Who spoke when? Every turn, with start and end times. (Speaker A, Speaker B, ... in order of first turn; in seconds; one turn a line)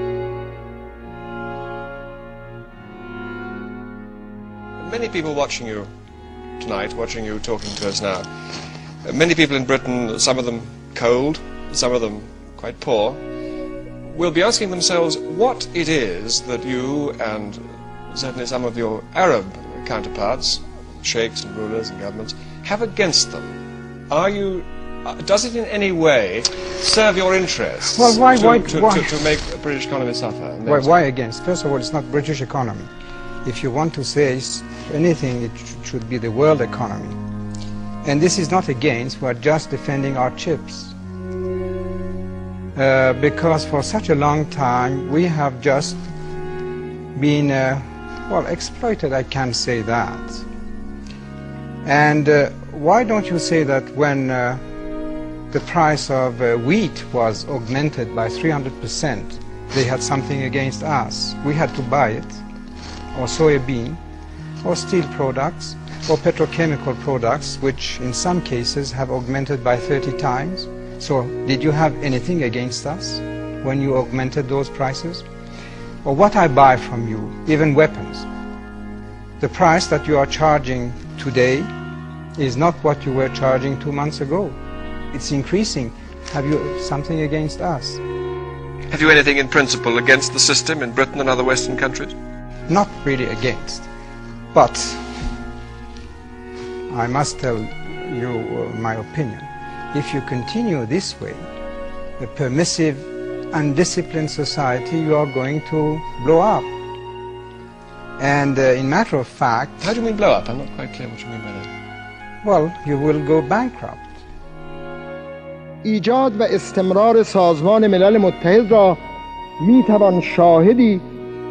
Speaker A: 4.8-5.9
Speaker A: 6.6-8.3
Speaker A: 9.0-13.2
Speaker A: 14.1-23.6
Speaker A: 24.1-31.0
Speaker B: 27.9-29.2
Speaker B: 30.6-32.9
Speaker B: 33.4-37.2
Speaker B: 38.0-40.9
Speaker B: 42.8-46.0
Speaker B: 47.1-50.4
Speaker B: 51.8-54.6
Speaker B: 55.5-62.4
Speaker B: 63.1-64.0
Speaker B: 64.6-75.2
Speaker B: 76.0-78.3
Speaker B: 79.4-81.7
Speaker B: 82.4-84.5
Speaker B: 85.1-88.0
Speaker A: 88.9-92.1
Speaker B: 92.7-93.9
Speaker B: 94.5-95.0
Speaker B: 96.9-101.5
Speaker B: 102.2-106.7
Speaker B: 108.2-109.8
Speaker A: 109.8-111.7
Speaker B: 112.4-114.1
Speaker C: 115.8-119.0
Speaker C: 119.6-121.0